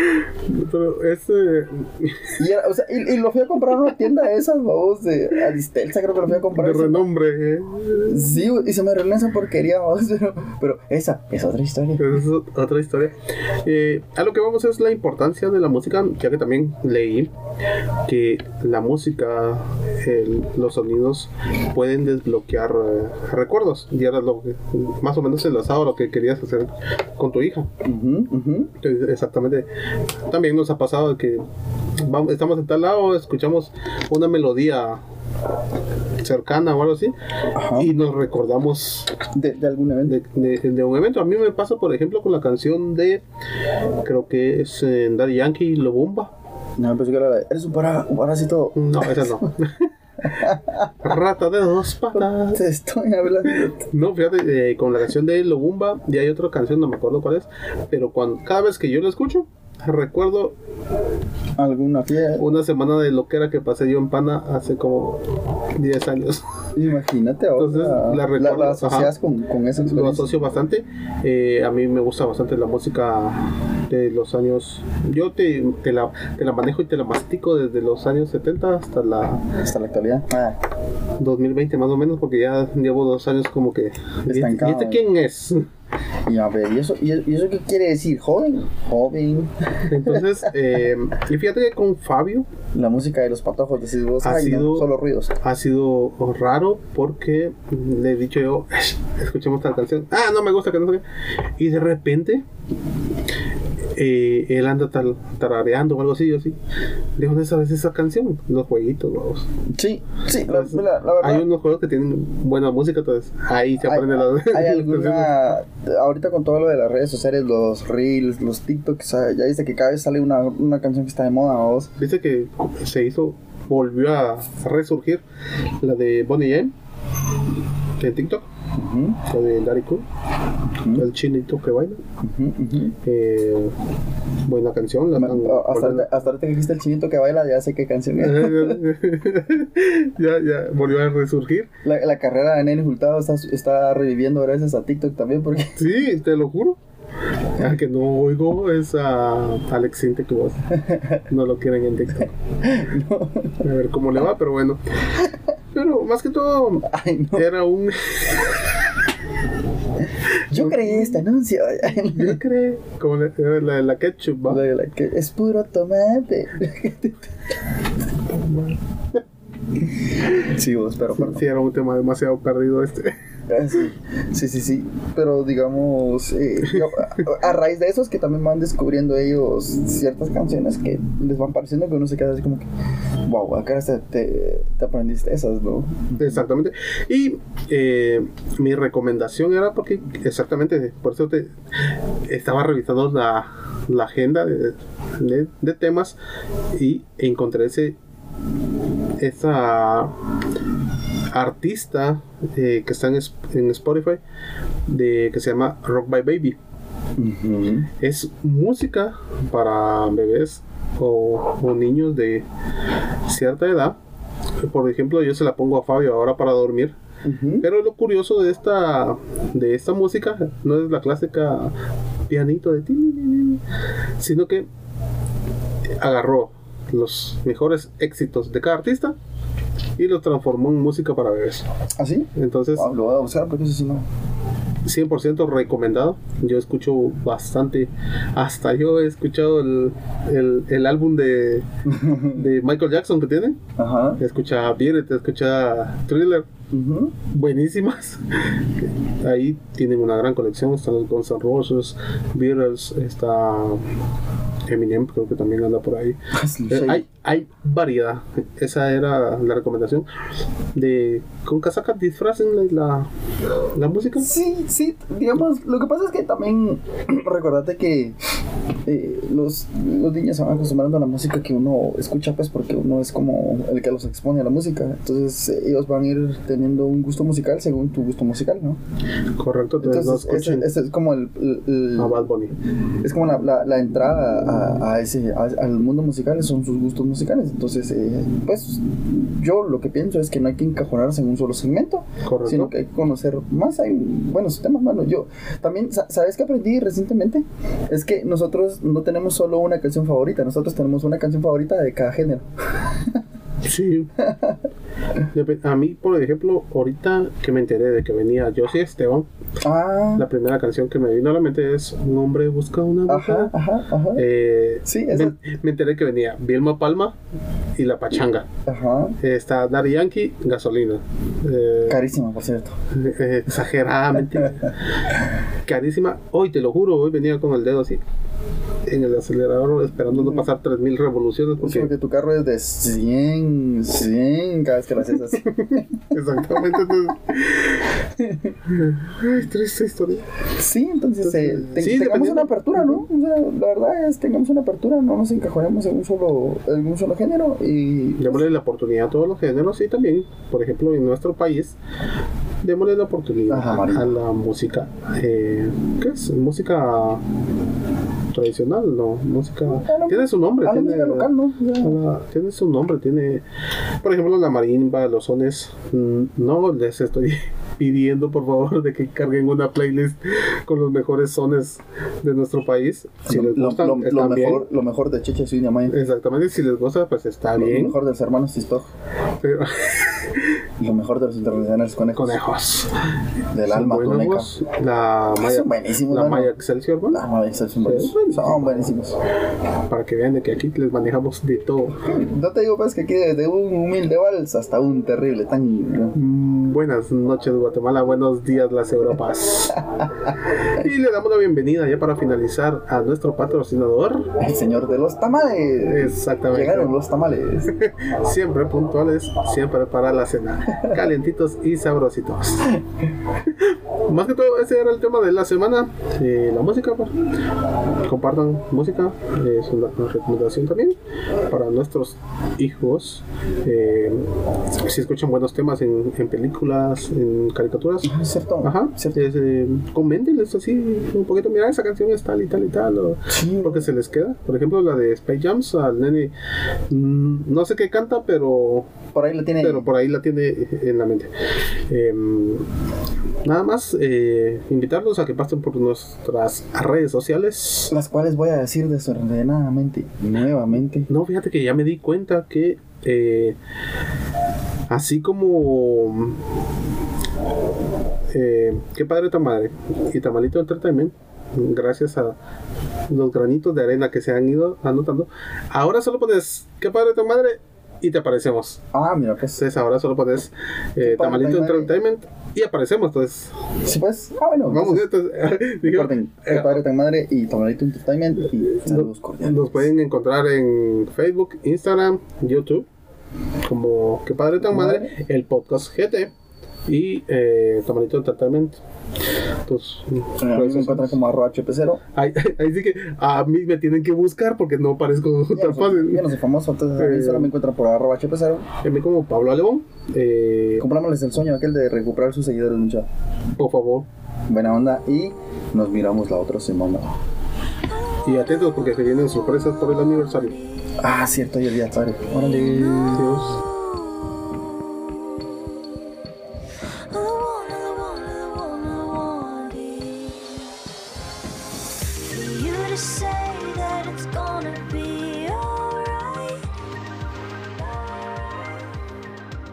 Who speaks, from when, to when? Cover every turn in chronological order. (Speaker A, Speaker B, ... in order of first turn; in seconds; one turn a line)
Speaker A: 0.1-2.4
Speaker B: 2.4-7.1
Speaker A: 6.4-8.3
Speaker B: 8.1-12.2
Speaker A: 12.0-17.3
Speaker A: 18.1-27.7
Speaker B: 27.8-28.7
Speaker A: 28.8-29.7
Speaker A: 30.3-31.4
Speaker A: 32.0-35.0
Speaker A: 36.2-37.1
Speaker B: 37.5-37.9
Speaker A: 37.7-39.1
Speaker B: 39.3-40.2
Speaker A: 40.1-43.2
Speaker A: 44.0-46.3
Speaker B: 46.8-49.5
Speaker A: 48.7-49.9
Speaker B: 50.2-51.0
Speaker A: 51.0-52.6
Speaker B: 52.1-53.8
Speaker A: 53.5-60.6
Speaker B: 61.6-62.5
Speaker A: 62.4-66.7
Speaker B: 66.8-70.3
Speaker A: 67.6-69.2
Speaker A: 69.8-79.5
Speaker B: 79.5-80.6
Speaker A: 81.2-85.7
Speaker B: 84.3-85.0
Speaker B: 86.3-90.5
Speaker A: 89.9-92.5
Speaker B: 92.7-95.3
Speaker A: 94.2-94.9
Speaker A: 95.4-101.0
Speaker A: 101.6-102.5
Speaker A: 104.0-106.6
Speaker A: 107.2-109.5
Speaker B: 109.7-111.5
Speaker A: 110.5-115.3
Speaker B: 113.8-121.9
Speaker A: 122.0-125.2
Speaker A: 125.8-126.7
Speaker A: 128.0-128.5
Speaker B: 128.7-129.2
Speaker A: 129.2-130.1
Speaker A: 130.9-132.0
Speaker B: 132.2-132.9
Speaker A: 133.0-133.8
Speaker A: 134.4-136.1
Speaker B: 135.1-138.8
Speaker A: 138.2-141.7
Speaker B: 141.8-145.8
Speaker A: 145.8-146.8
Speaker A: 147.6-150.7
Speaker B: 150.8-151.2
Speaker A: 151.3-152.3
Speaker B: 152.6-153.6
Speaker A: 153.6-154.8
Speaker A: 155.7-158.7
Speaker B: 156.8-157.5
Speaker B: 160.5-162.4
Speaker A: 160.5-161.2
Speaker A: 161.9-164.6
Speaker B: 164.5-167.3
Speaker A: 168.3-169.2
Speaker B: 170.3-171.4
Speaker A: 171.1-173.2
Speaker B: 173.5-182.7
Speaker B: 183.3-186.4
Speaker A: 186.2-196.2
Speaker A: 196.7-198.0
Speaker A: 199.2-200.2
Speaker A: 201.3-204.2
Speaker A: 204.9-206.6
Speaker B: 207.2-207.9
Speaker A: 208.0-212.4
Speaker A: 213.3-214.0
Speaker A: 214.6-217.0
Speaker B: 217.2-217.7
Speaker A: 217.6-221.8
Speaker A: 222.3-223.6
Speaker A: 224.2-224.7
Speaker A: 226.0-229.2
Speaker A: 230.0-231.7
Speaker B: 232.0-234.1
Speaker A: 232.3-232.9
Speaker A: 234.8-243.6
Speaker B: 241.9-242.4
Speaker B: 243.8-244.2
Speaker A: 244.2-246.5
Speaker B: 246.7-247.1
Speaker A: 247.3-253.9
Speaker A: 254.7-260.1
Speaker B: 256.3-257.0
Speaker A: 260.7-263.1
Speaker A: 263.7-264.3
Speaker B: 264.2-268.2
Speaker B: 268.9-278.8
Speaker A: 279.4-280.7
Speaker B: 279.8-282.3
Speaker A: 282.0-282.6
Speaker B: 283.0-303.2
Speaker A: 292.2-292.7
Speaker A: 303.6-304.1
Speaker B: 304.2-304.6
Speaker A: 305.3-309.3
Speaker B: 309.6-310.3
Speaker A: 310.2-313.5
Speaker B: 313.1-314.3
Speaker A: 314.1-317.2
Speaker B: 314.9-315.4
Speaker A: 317.8-318.5
Speaker B: 318.7-319.2
Speaker A: 319.2-322.0
Speaker B: 321.9-322.8
Speaker A: 322.9-324.7
Speaker A: 325.6-328.0
Speaker A: 328.9-331.9
Speaker B: 330.1-330.5
Speaker B: 331.6-335.9
Speaker A: 335.4-338.0
Speaker B: 336.5-336.9
Speaker B: 338.0-338.6
Speaker A: 338.7-340.2
Speaker B: 340.5-348.4
Speaker A: 341.2-343.0
Speaker A: 348.2-351.8
Speaker A: 352.6-357.2
Speaker B: 353.5-354.1
Speaker A: 358.3-363.4
Speaker B: 359.7-362.0
Speaker A: 364.0-374.7
Speaker B: 373.3-376.0
Speaker A: 375.9-378.0
Speaker B: 377.6-378.9
Speaker A: 379.4-380.6
Speaker B: 380.8-382.4
Speaker A: 382.1-383.1
Speaker B: 383.5-384.5
Speaker A: 383.7-387.2
Speaker B: 385.4-386.5
Speaker B: 387.1-389.2
Speaker A: 387.8-388.9
Speaker A: 389.9-392.1
Speaker B: 392.1-396.2
Speaker A: 396.1-404.3
Speaker B: 399.9-400.3
Speaker B: 404.4-407.8
Speaker A: 405.9-406.9
Speaker A: 407.7-412.8
Speaker A: 413.4-417.1
Speaker A: 418.0-421.0
Speaker A: 421.5-436.3
Speaker B: 428.0-429.2
Speaker B: 433.3-433.9
Speaker A: 436.9-439.0
Speaker B: 439.1-439.9
Speaker A: 439.6-441.3
Speaker A: 441.9-442.7
Speaker A: 443.4-447.9
Speaker B: 447.9-451.1
Speaker A: 451.1-453.6
Speaker A: 454.9-456.4
Speaker A: 458.3-462.4
Speaker A: 463.1-468.8
Speaker B: 468.9-469.6
Speaker A: 469.6-473.5
Speaker B: 471.0-471.9
Speaker B: 473.9-479.8
Speaker A: 474.7-476.8
Speaker A: 478.8-482.9
Speaker A: 483.6-486.3
Speaker B: 484.6-485.1
Speaker A: 486.9-488.8
Speaker A: 489.6-491.2
Speaker B: 490.4-492.0
Speaker A: 492.1-496.3
Speaker B: 495.5-498.7
Speaker A: 497.0-497.5
Speaker A: 498.8-500.9
Speaker B: 500.8-503.1
Speaker A: 503.6-504.1
Speaker B: 504.5-507.2
Speaker C: 507.9-510.9
Speaker A: 508.2-510.6
Speaker B: 511.0-513.5
Speaker C: 512.3-516.1
Speaker A: 513.1-513.6
Speaker C: 517.0-520.8
Speaker C: 522.1-526.7
Speaker C: 527.6-529.1